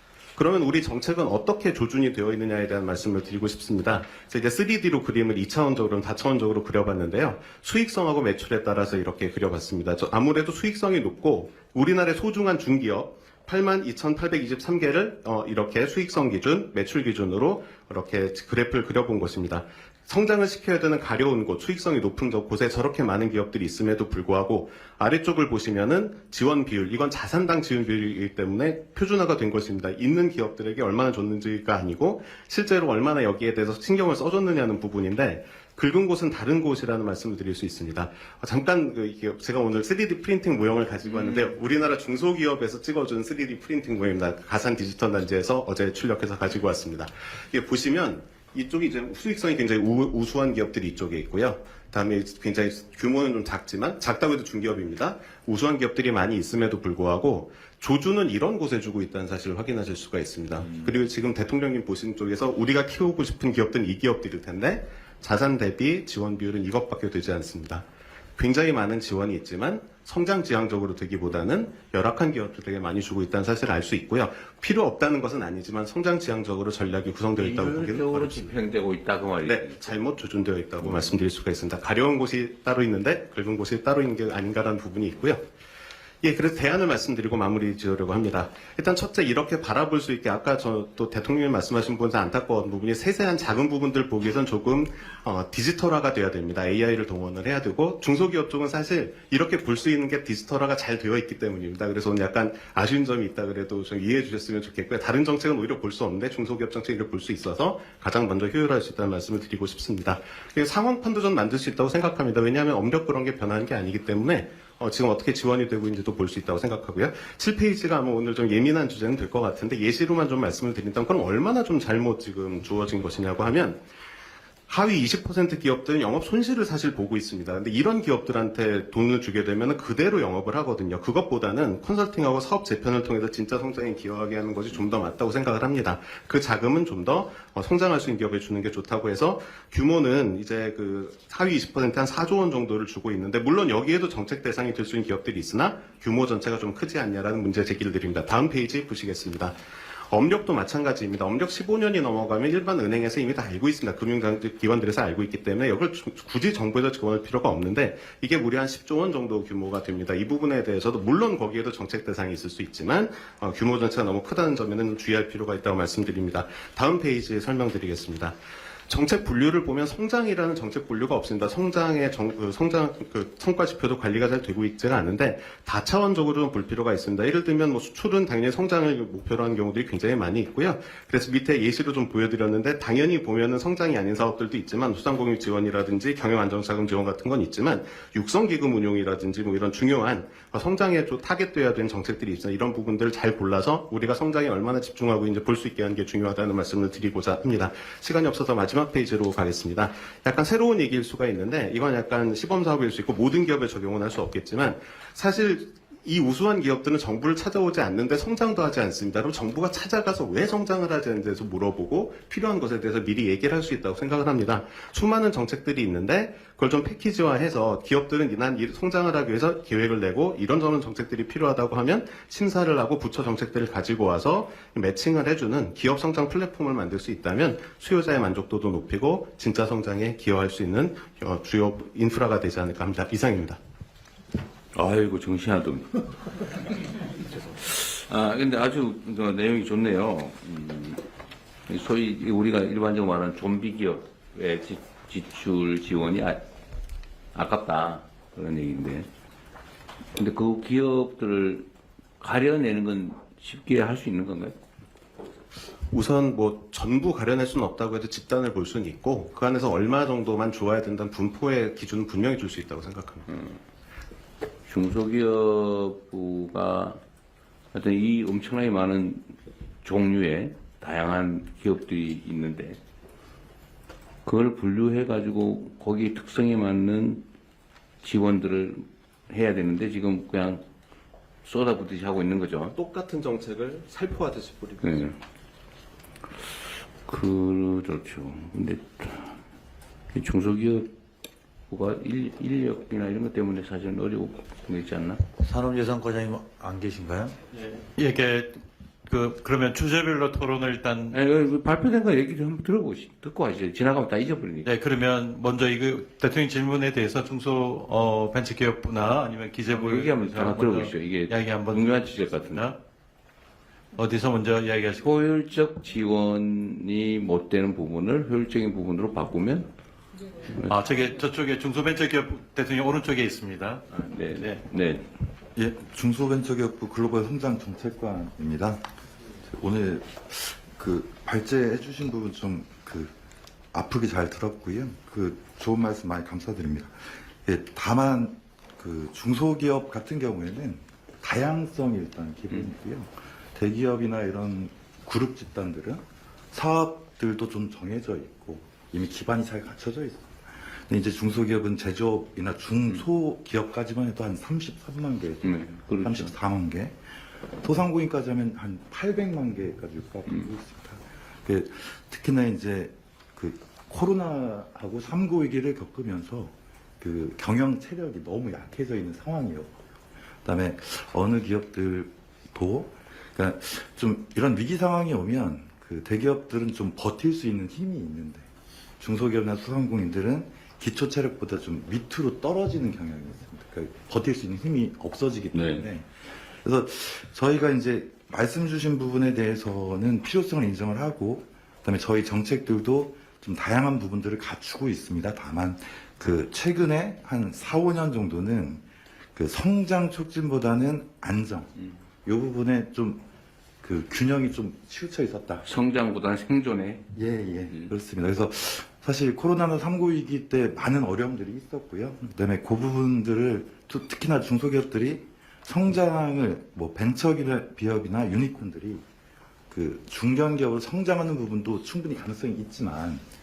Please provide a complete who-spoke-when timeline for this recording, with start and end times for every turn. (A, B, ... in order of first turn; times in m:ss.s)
0:00.4-1:07.8 A
0:41.1-0:41.5 B
1:08.4-1:18.5 A
1:17.4-1:19.9 B
1:19.4-1:25.4 A
1:20.8-1:21.2 B
1:26.2-2:03.8 A
2:04.7-2:29.5 A
2:30.1-2:48.4 A
2:48.9-3:53.6 A
3:54.7-3:56.0 B
3:57.6-4:01.0 B
4:01.7-4:06.4 B
4:07.3-4:09.1 B
4:10.2-4:11.7 B
4:12.2-4:14.6 B
4:15.9-4:23.2 A
4:23.3-4:23.6 B
4:24.7-4:27.0 B
4:27.7-4:32.8 B
4:34.2-4:37.2 B
4:38.0-4:40.6 B
4:41.4-4:42.8 B
4:42.7-4:45.0 A
4:44.8-4:45.2 B
4:47.0-4:49.4 B
4:50.1-4:50.9 B
4:51.7-4:55.2 B
4:55.4-4:57.4 C
4:57.9-5:01.2 D
5:01.1-5:04.7 B
5:04.6-5:12.8 D
5:09.7-5:12.7 B
5:14.0-5:15.1 D
5:15.0-5:19.7 B
5:20.6-5:23.8 D
5:23.9-5:25.0 B
5:25.5-5:28.8 E
5:29.5-5:33.1 E
5:33.7-5:57.0 E
5:55.4-5:56.3 B
5:57.6-6:09.7 E
6:10.4-6:18.5 E
6:19.0-6:26.1 E
6:25.5-6:25.9 B
6:26.6-6:38.8 E
6:39.3-6:43.2 E
6:43.8-6:45.6 E
6:45.6-6:47.1 B
6:47.1-6:59.0 E
6:59.7-7:03.2 E